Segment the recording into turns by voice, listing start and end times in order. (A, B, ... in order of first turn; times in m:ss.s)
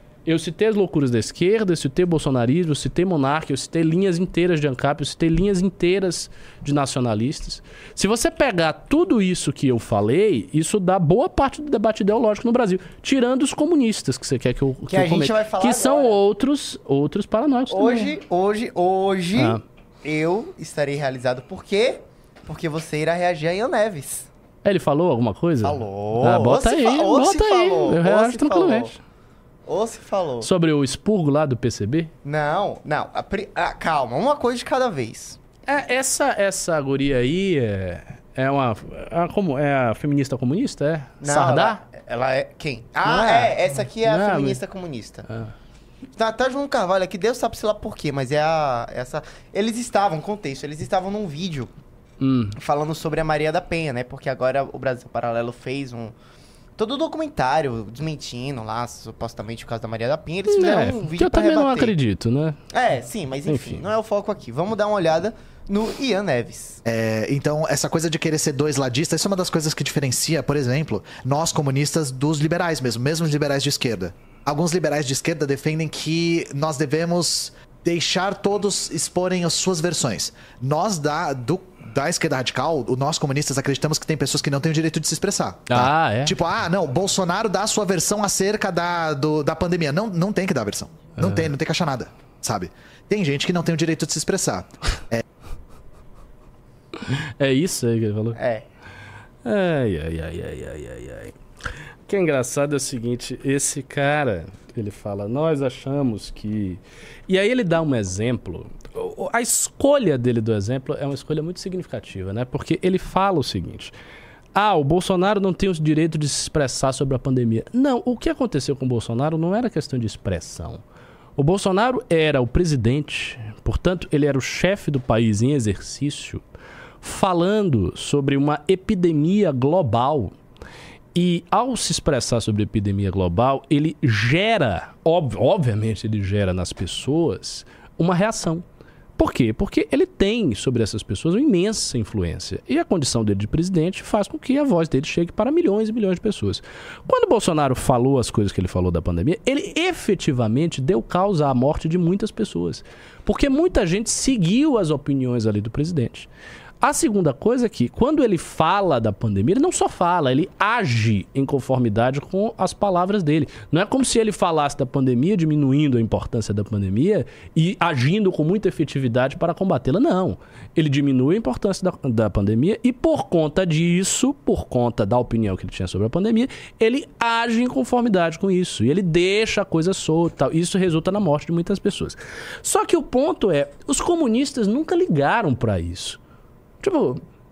0:00.3-0:18.1 A
0:14.9-0:16.2 B
0:17.7-0:24.3 B
0:19.4-0:19.6 A
0:24.6-0:29.0 A
0:25.6-0:28.9 B
0:29.7-0:30.5 B
0:30.4-0:32.1 A
0:32.2-0:35.4 B
0:35.7-0:41.8 A
0:41.2-0:45.2 B
0:43.0-0:44.6 A
0:45.3-0:45.5 A
0:46.2-0:51.7 B
0:52.2-0:52.6 A
0:52.6-0:56.2 B
0:56.8-1:02.0 B
1:00.5-1:02.6 A
1:02.7-1:06.8 B
1:03.5-1:03.8 A
1:06.8-1:35.2 C
1:25.7-1:26.3 A
1:31.2-1:31.5 A
1:37.1-1:38.4 A
1:38.4-1:38.7 B
1:39.4-1:41.4 A
1:42.1-1:53.9 A
1:54.6-2:00.8 A
2:01.4-2:06.4 A
2:07.0-2:10.3 A
2:11.2-2:18.6 A
2:19.2-2:36.3 A
2:36.8-3:06.2 A
3:06.8-3:07.2 A